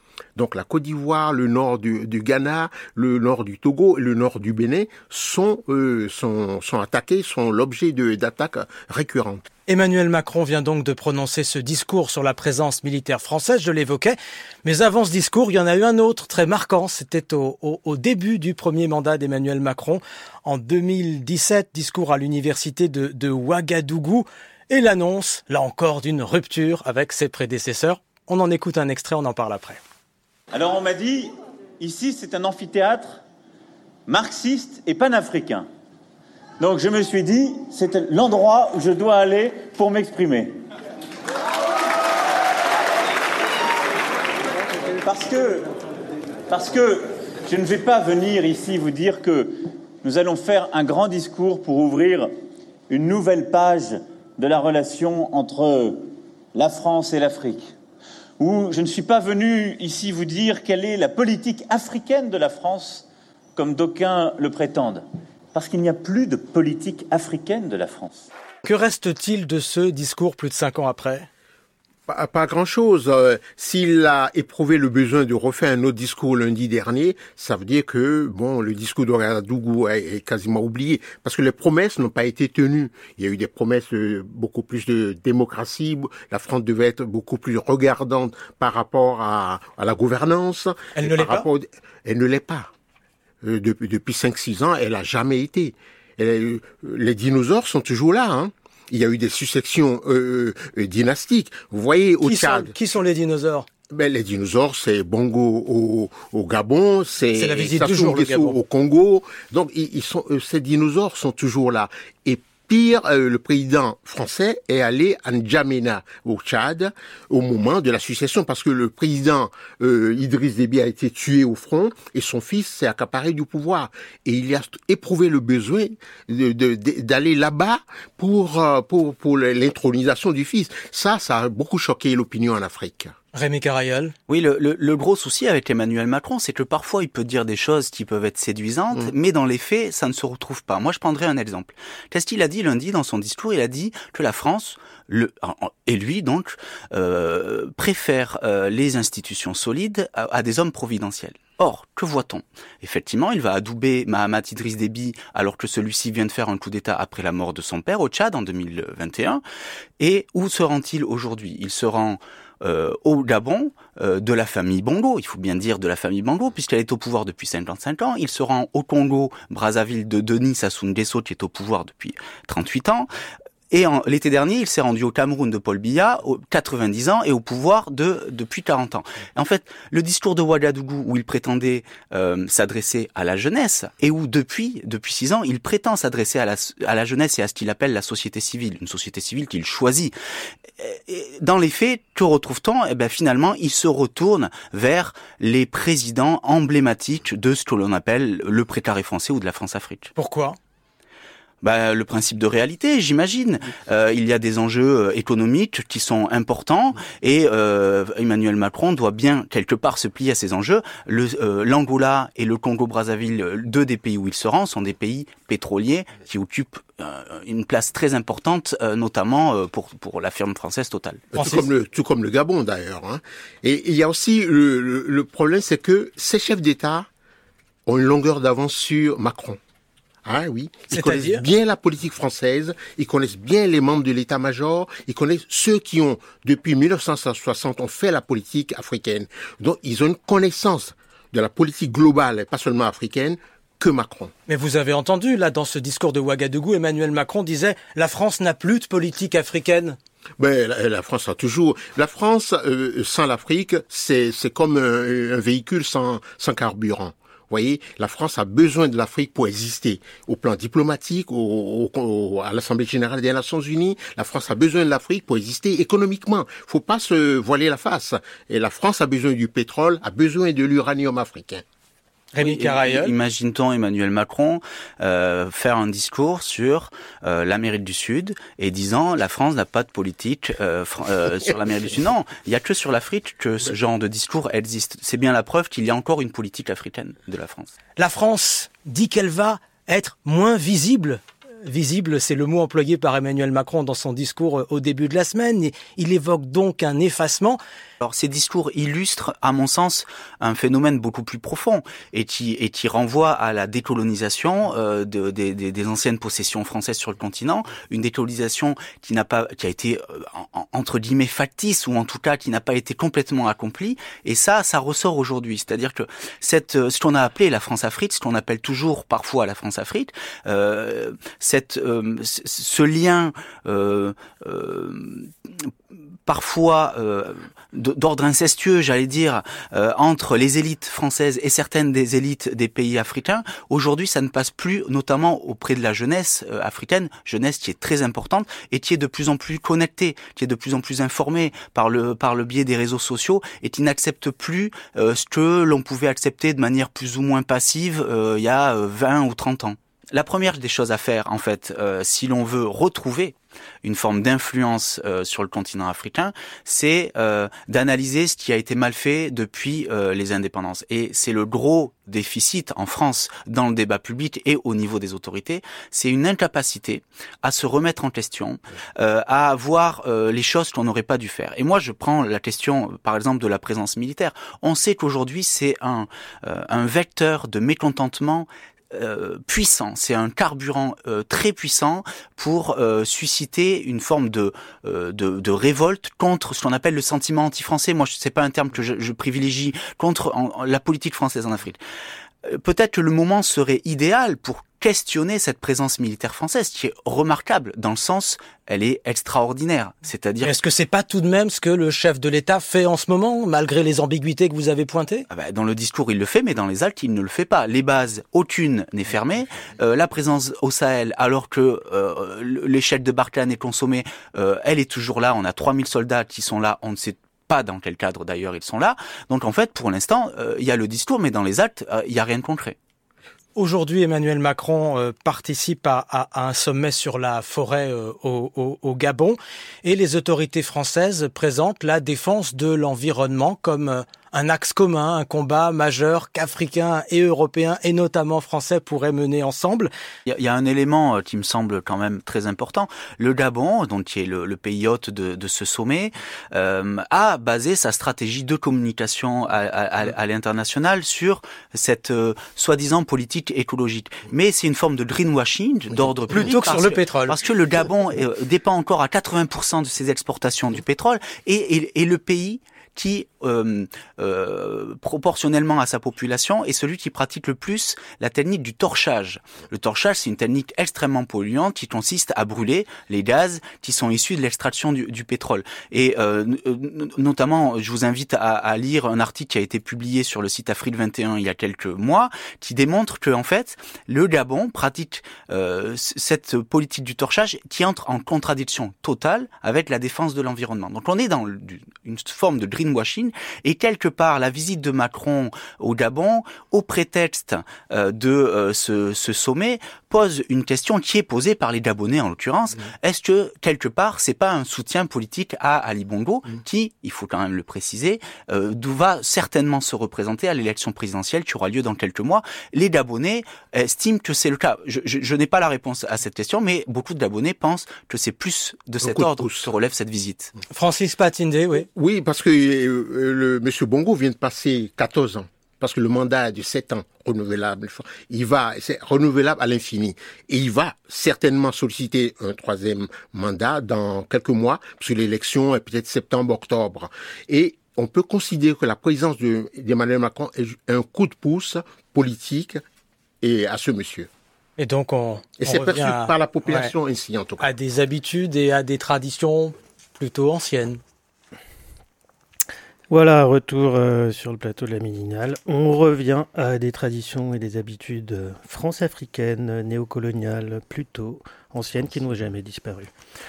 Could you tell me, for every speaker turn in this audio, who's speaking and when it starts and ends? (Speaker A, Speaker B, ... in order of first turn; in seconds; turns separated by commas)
Speaker A: 0.3-9.5, Speaker B: 9.7-29.8, Speaker C: 30.5-33.2, Speaker C: 34.1-35.7, Speaker C: 36.6-40.6, Speaker C: 45.0-45.7, Speaker C: 46.5-52.3, Speaker C: 52.9-57.7, Speaker C: 58.4-68.3, Speaker B: 68.6-71.3, Speaker A: 72.1-92.7, Speaker B: 90.9-91.5, Speaker A: 93.4-102.7, Speaker B: 102.2-103.7, Speaker A: 103.9-133.2, Speaker B: 107.3-108.6, Speaker B: 133.3-134.1, Speaker D: 134.3-159.4, Speaker D: 160.0-173.1, Speaker D: 173.7-190.1, Speaker D: 190.8-200.1, Speaker B: 200.2-200.6, Speaker D: 201.6-221.2, Speaker A: 221.3-227.1, Speaker B: 221.3-221.7, Speaker A: 227.8-229.6, Speaker A: 230.2-244.3, Speaker B: 230.9-231.4, Speaker B: 244.5-250.0, Speaker A: 250.4-271.6, Speaker B: 272.3-273.1, Speaker D: 272.4-287.7, Speaker B: 288.0-297.6, Speaker D: 298.0-325.7, Speaker D: 326.2-391.8, Speaker D: 392.4-400.6, Speaker B: 400.4-405.2, Speaker D: 405.3-422.8, Speaker B: 423.6-439.9, Speaker D: 440.2-520.5, Speaker B: 456.3-457.4, Speaker A: 519.0-519.7, Speaker B: 520.7-521.9, Speaker A: 521.9-542.8, Speaker A: 543.4-544.3, Speaker B: 544.8-546.9, Speaker A: 545.6-547.6, Speaker B: 547.6-551.0, Speaker E: 553.1-563.1